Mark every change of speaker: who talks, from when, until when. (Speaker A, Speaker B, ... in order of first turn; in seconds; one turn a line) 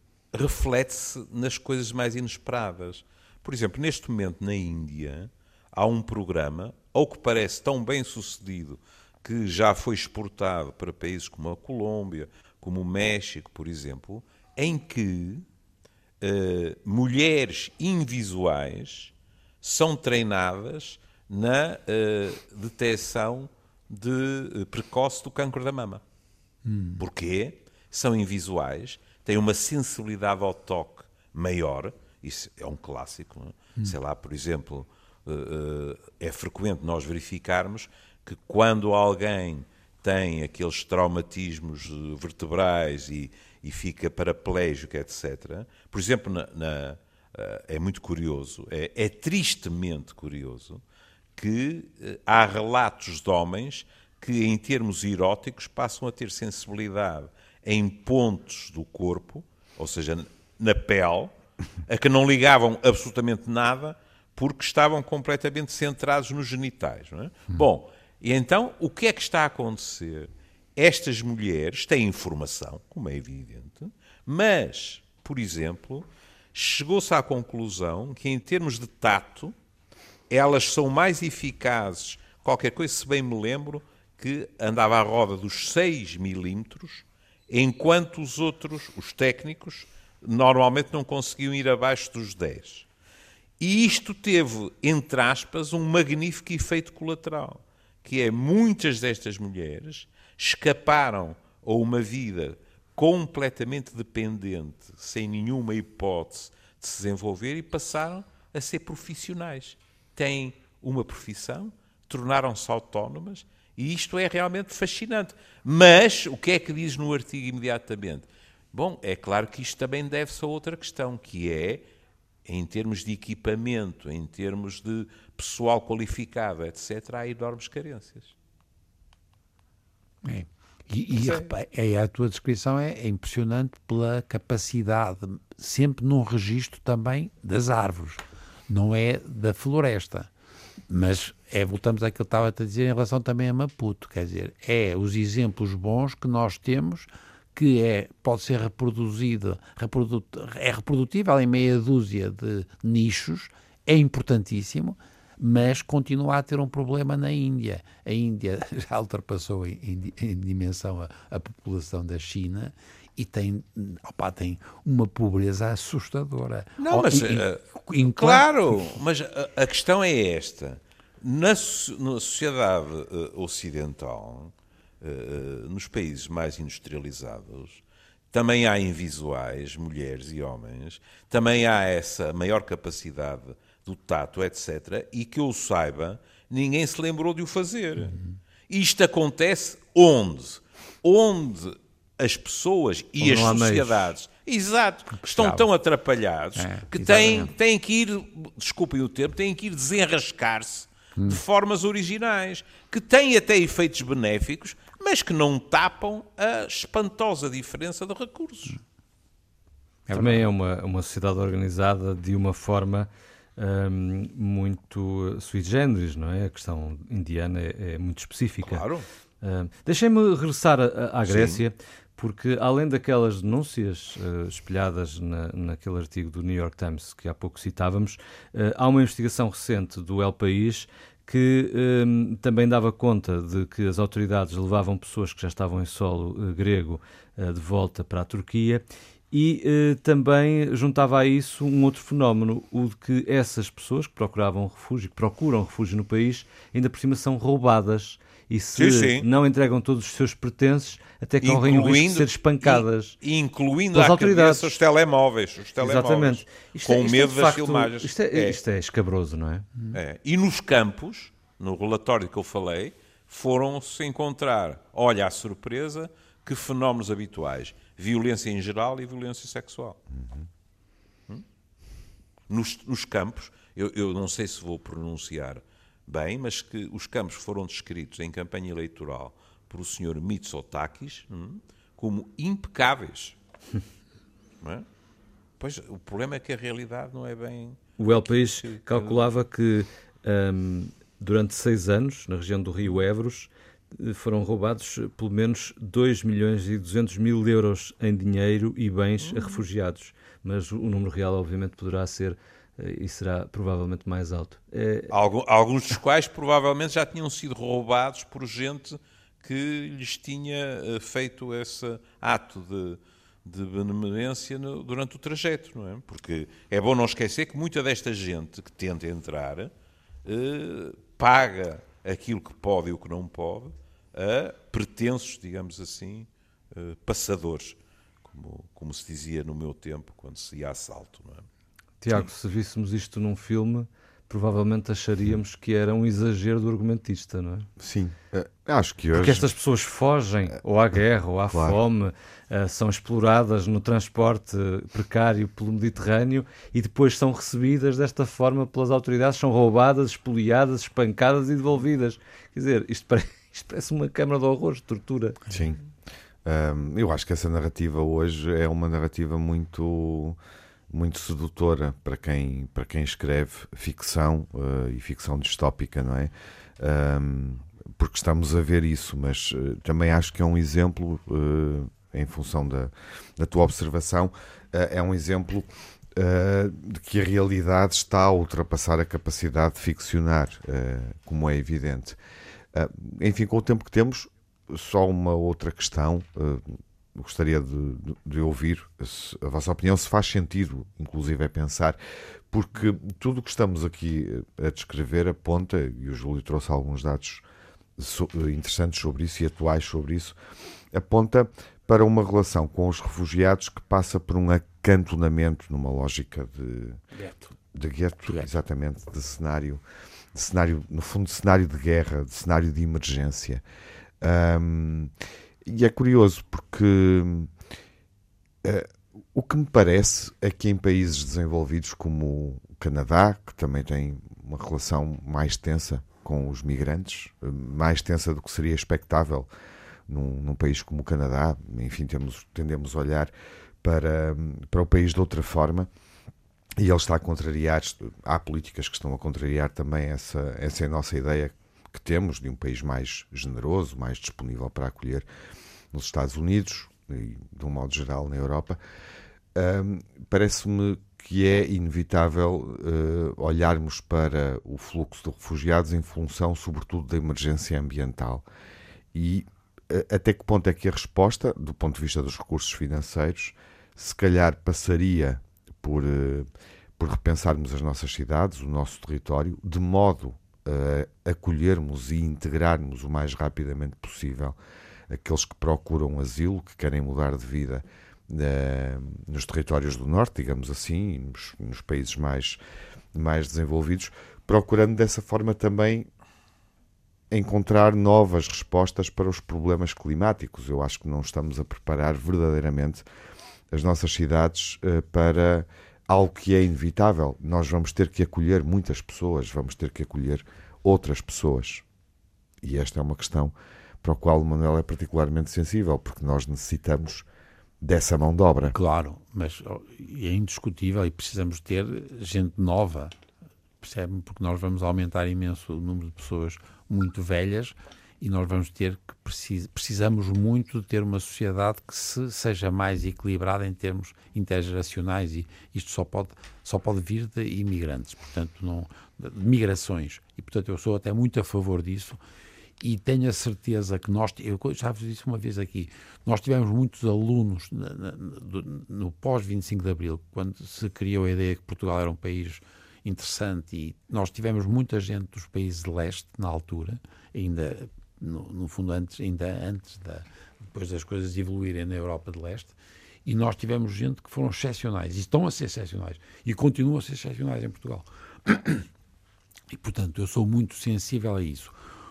Speaker A: 0.3-15.4
Speaker A: 16.2-26.0
Speaker B: 26.6-27.0
Speaker A: 27.0-50.8
Speaker A: 51.4-61.3
Speaker A: 61.9-79.5
Speaker A: 80.3-92.9
Speaker A: 93.6-121.8
Speaker A: 122.5-128.3
Speaker B: 130.2-140.3
Speaker A: 131.1-131.5
Speaker B: 140.9-168.9
Speaker A: 166.8-188.2
Speaker A: 188.7-208.8
Speaker C: 193.2-194.1
Speaker B: 195.2-195.7
Speaker B: 196.6-197.5
Speaker B: 201.2-201.4
Speaker B: 210.1-210.4
Speaker C: 210.1-218.8
Speaker A: 218.6-219.1
Speaker C: 219.4-253.2
Speaker A: 221.2-221.6
Speaker A: 248.8-249.3
Speaker A: 251.4-258.6
Speaker C: 253.9-254.7
Speaker C: 255.8-259.7
Speaker A: 259.9-270.0
Speaker D: 270.1-270.5
Speaker A: 272.5-283.4
Speaker A: 285.6-289.2
Speaker C: 288.0-305.1
Speaker A: 299.3-299.6
Speaker A: 305.1-319.7
Speaker A: 320.2-331.4
Speaker C: 332.0-337.7
Speaker D: 337.8-339.5
Speaker C: 339.1-355.4
Speaker D: 341.5-341.8
Speaker D: 355.5-355.8
Speaker D: 356.4-360.4
Speaker D: 360.9-382.1
Speaker D: 382.7-392.0
Speaker D: 392.5-397.4
Speaker D: 398.0-400.4
Speaker D: 400.9-407.0
Speaker B: 407.1-407.5
Speaker D: 407.7-409.8
Speaker D: 410.3-413.6
Speaker D: 414.2-415.1
Speaker D: 415.6-417.5
Speaker D: 418.6-429.5
Speaker D: 430.1-433.3
Speaker D: 433.8-435.9
Speaker D: 436.8-445.2
Speaker D: 445.9-448.8
Speaker D: 449.5-458.4
Speaker D: 459.1-466.5
Speaker D: 467.0-474.6
Speaker D: 475.1-482.6
Speaker D: 483.1-486.1
Speaker D: 487.3-493.0
Speaker D: 493.7-501.8
Speaker D: 502.6-507.2
Speaker D: 507.8-508.8
Speaker B: 508.6-513.1
Speaker B: 513.8-532.2
Speaker B: 532.8-558.9
Speaker B: 559.7-561.7